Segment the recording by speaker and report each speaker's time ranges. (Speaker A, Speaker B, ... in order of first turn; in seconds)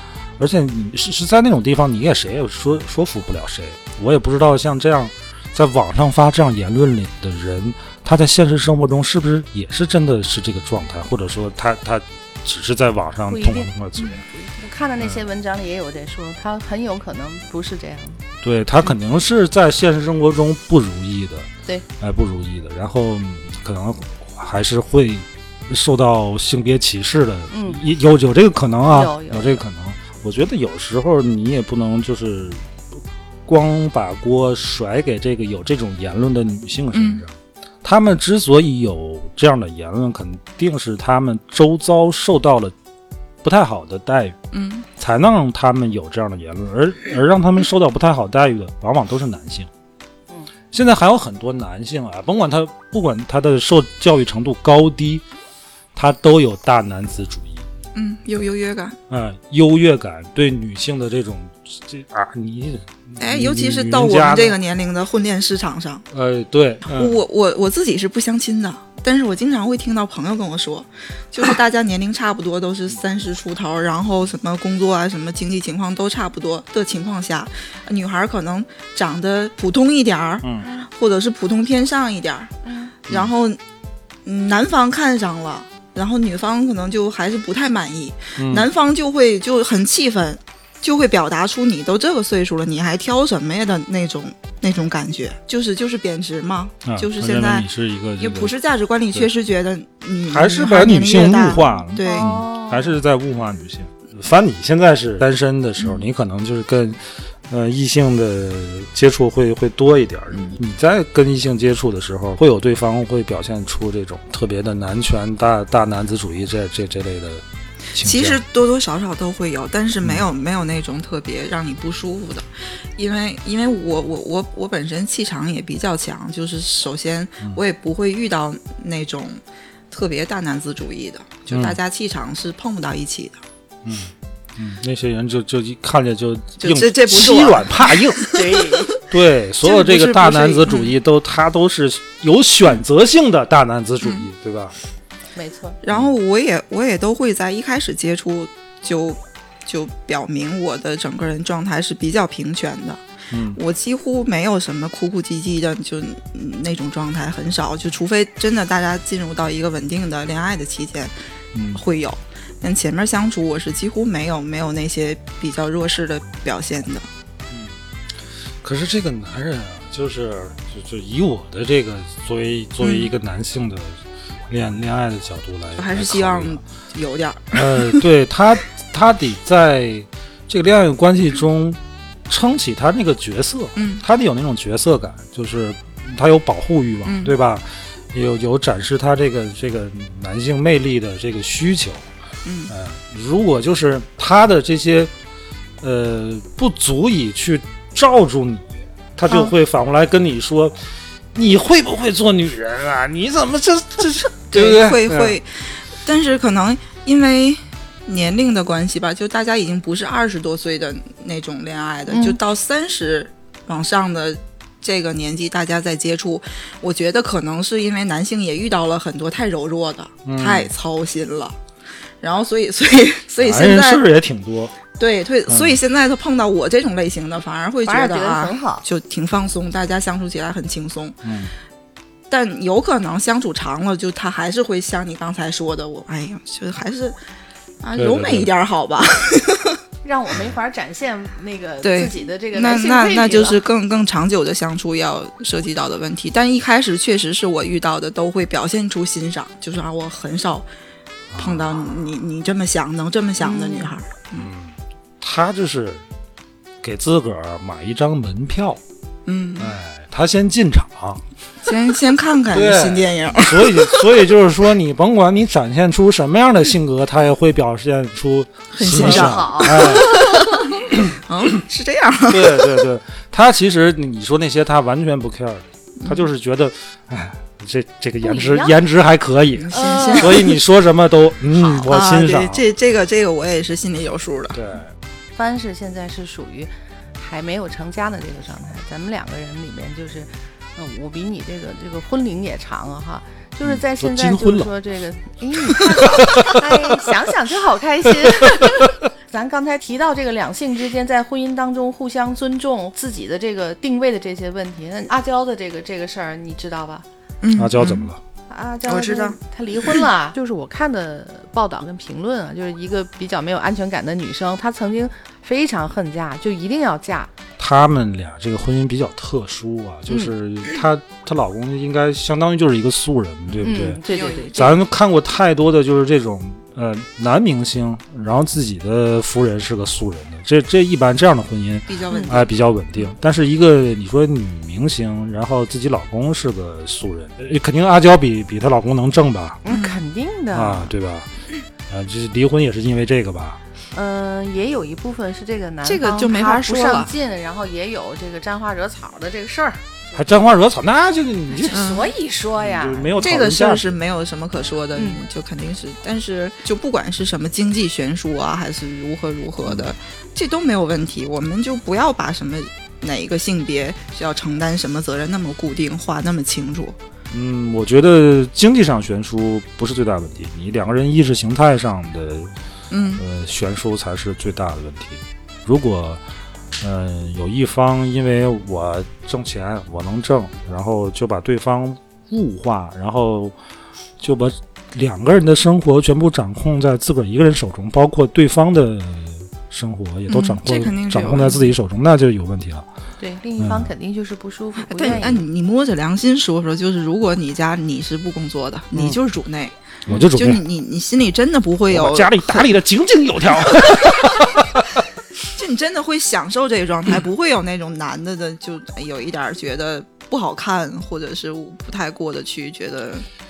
Speaker A: 0.4-14.2, 15.0-15.2, 18.4-21.5, 22.0-32.6, 33.5-42.7, 43.4-44.4, 45.0-49.7, 50.7-55.2, 55.9-57.6, 59.1-64.6, 66.1-67.2, 80.4-80.7, 88.4-88.7, 96.8-98.5, 100.3-118.4, 131.5-131.8, 133.8-138.4, 139.0-144.7, 153.3-153.6, 161.5-161.8, 168.6-176.6, 177.5-192.1, 192.7-195.1, 195.8-200.8, 201.3-205.4, 220.2-220.7, 223.4-224.8, 225.5-225.8, 231.2-231.5, 238.0-238.5, 251.3-251.7, 254.3-256.0, 256.8-258.8, 259.6-261.2, 262.5-270.2, 270.9-271.2, 272.3-282.6, 284.5-284.9, 293.6-294.7, 295.9-296.6, 298.2-298.9, 307.6-308.2, 317.6-324.0, 324.5-339.6, 340.5-341.3, 341.9-343.6, 350.1-351.8, 352.6-354.0, 359.6-359.9, 367.3-372.5, 373.1-376.2, 376.8-383.5, 384.2-392.9, 393.6-393.9, 398.9-399.2, 400.1-400.6, 401.9-405.0
Speaker B: 13.3-13.7, 14.2-18.2, 27.5-27.8, 28.9-29.6, 82.6-82.9, 102.0-103.0, 138.2-139.0, 145.3-145.8, 212.1-212.4, 227.8-228.8, 240.0-243.6, 253.4-253.9, 268.9-270.7, 278.2-278.8, 279.7-280.4, 285.3-307.0, 308.5-317.3, 323.6-324.8, 332.1-332.4, 339.6-340.9, 343.9-350.4, 351.5-353.3, 354.9-355.2, 393.2-395.4
Speaker C: 36.9-37.2, 44.5-44.9, 57.9-59.0, 63.2-66.0, 66.8-82.5, 83.1-83.6, 84.2-97.7, 98.2-102.3, 105.8-106.0, 118.0-133.4, 136.6-138.7, 139.6-140.9, 145.8-161.1, 161.7-167.1, 172.8-173.1, 175.7-178.0, 183.8-184.0, 187.0-187.4, 192.4-192.7, 204.5-221.6, 222.2-224.0, 224.9-231.2, 232.3-237.2, 237.8-239.8, 241.8-250.7, 251.4-254.5, 259.2-259.8, 261.6-264.1, 268.7-272.8, 276.0-276.3, 279.6-280.6, 281.5-284.6, 307.4-308.1, 308.9-310.1, 324.1-324.8, 331.9-332.5, 339.7-340.0, 345.8-347.1, 351.7-352.1, 353.2-367.0, 372.9-373.2, 390.3-391.7, 394.8-402.7, 405.5-413.2